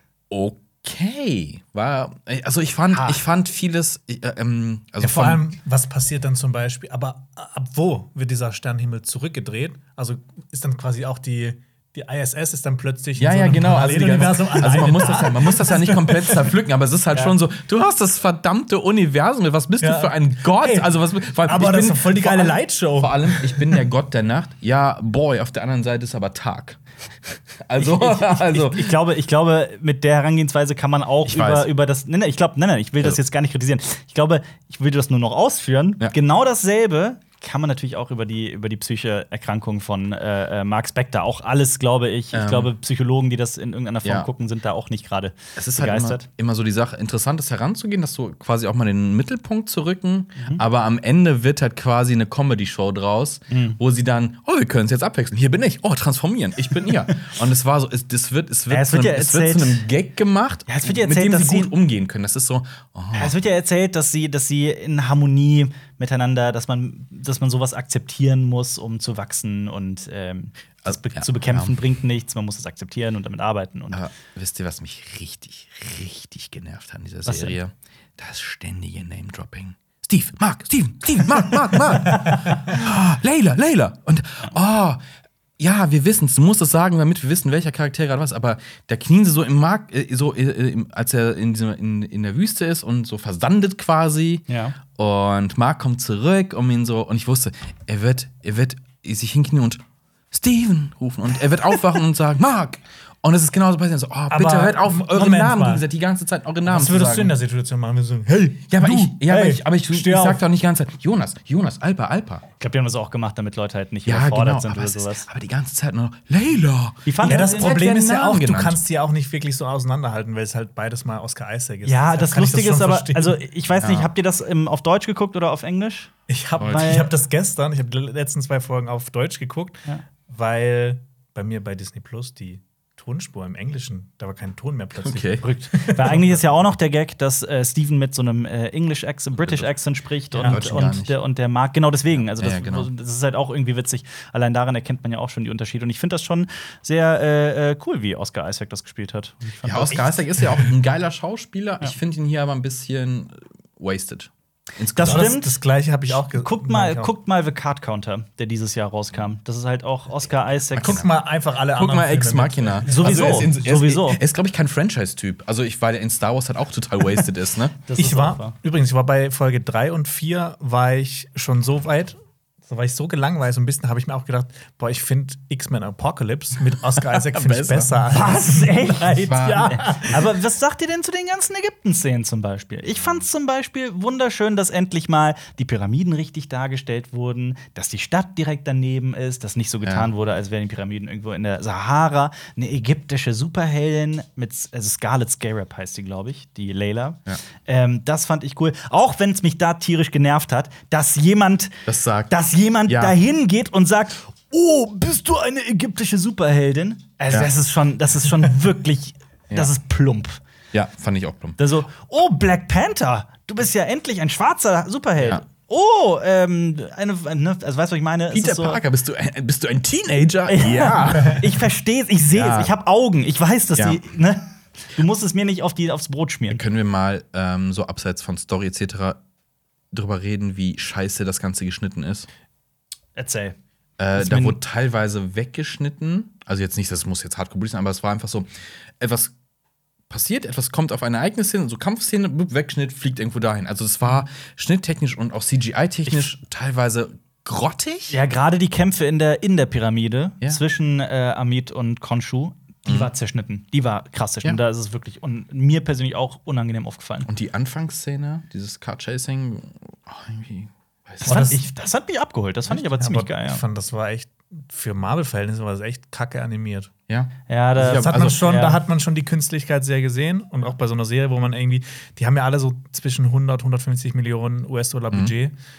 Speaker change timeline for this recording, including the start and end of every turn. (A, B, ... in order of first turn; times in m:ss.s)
0:00.3-0:05.5 A
0:02.9-0:03.2 B
0:05.0-0:16.5 C
0:13.2-0:29.0 A
0:19.8-0:23.9 C
0:27.8-0:46.3 B
0:31.2-0:31.7 A
0:42.3-0:42.7 A
0:44.0-0:44.3 A
0:45.6-1:03.4 A
0:50.4-0:50.6 B
0:53.5-0:53.8 B
0:58.7-0:59.8 B
1:00.7-1:01.8 B
1:03.1-1:14.1 B
1:10.8-1:11.8 A
1:13.9-1:25.0 A
1:17.2-1:17.6 B
1:25.6-1:39.8 A
1:34.5-1:34.8 B
1:40.3-1:47.4 A
1:44.3-1:45.8 C
1:46.6-1:50.4 C
1:48.7-1:52.4 A
1:52.6-1:55.3 B
1:54.1-1:58.8 A
1:57.1-1:57.8 B
1:57.2-2:03.4 C
2:01.8-2:07.1 B
2:03.8-2:04.1 A
2:06.3-2:16.2 C
2:06.6-2:06.9 A
2:15.0-2:15.5 A
2:15.4-2:30.1 B
2:19.4-2:19.7 A
2:20.3-2:20.8 C
2:20.4-2:21.2 A
2:22.2-2:22.9 A
2:29.6-2:35.4 A
2:30.4-2:30.7 C
2:34.9-2:35.5 B
2:35.0-2:37.1 C
2:36.1-2:41.0 B
2:40.7-2:41.1 A
2:40.8-2:43.5 C
2:41.7-2:47.8 A
2:42.9-2:44.2 B
2:47.8-2:48.6 B
2:48.0-3:00.2 C
2:57.2-2:58.4 A
2:58.1-3:21.8 B
2:59.2-3:00.2 A
3:09.8-3:10.1 A
3:21.9-3:22.3 A
3:22.3-3:30.4 B
3:22.9-3:23.2 A
3:30.7-3:31.6 A
3:31.6-3:38.8 B
3:38.3-3:41.6 A
3:40.5-3:46.6 B
3:42.3-3:42.7 A
3:43.8-3:44.0 A
3:46.5-3:49.2 A
3:49.9-3:52.3 A
3:53.2-3:53.6 B
3:54.0-3:58.5 A
3:54.2-3:54.6 B
3:59.0-3:59.3 A
4:00.1-4:08.2 A
4:06.1-4:06.3 B
4:08.1-4:17.3 B
4:17.3-4:21.6 A
4:21.2-4:23.6 B
4:21.2-4:21.6 C
4:23.0-4:26.9 C
4:27.1-4:28.4 A
4:27.5-4:28.8 B
4:27.8-4:35.6 C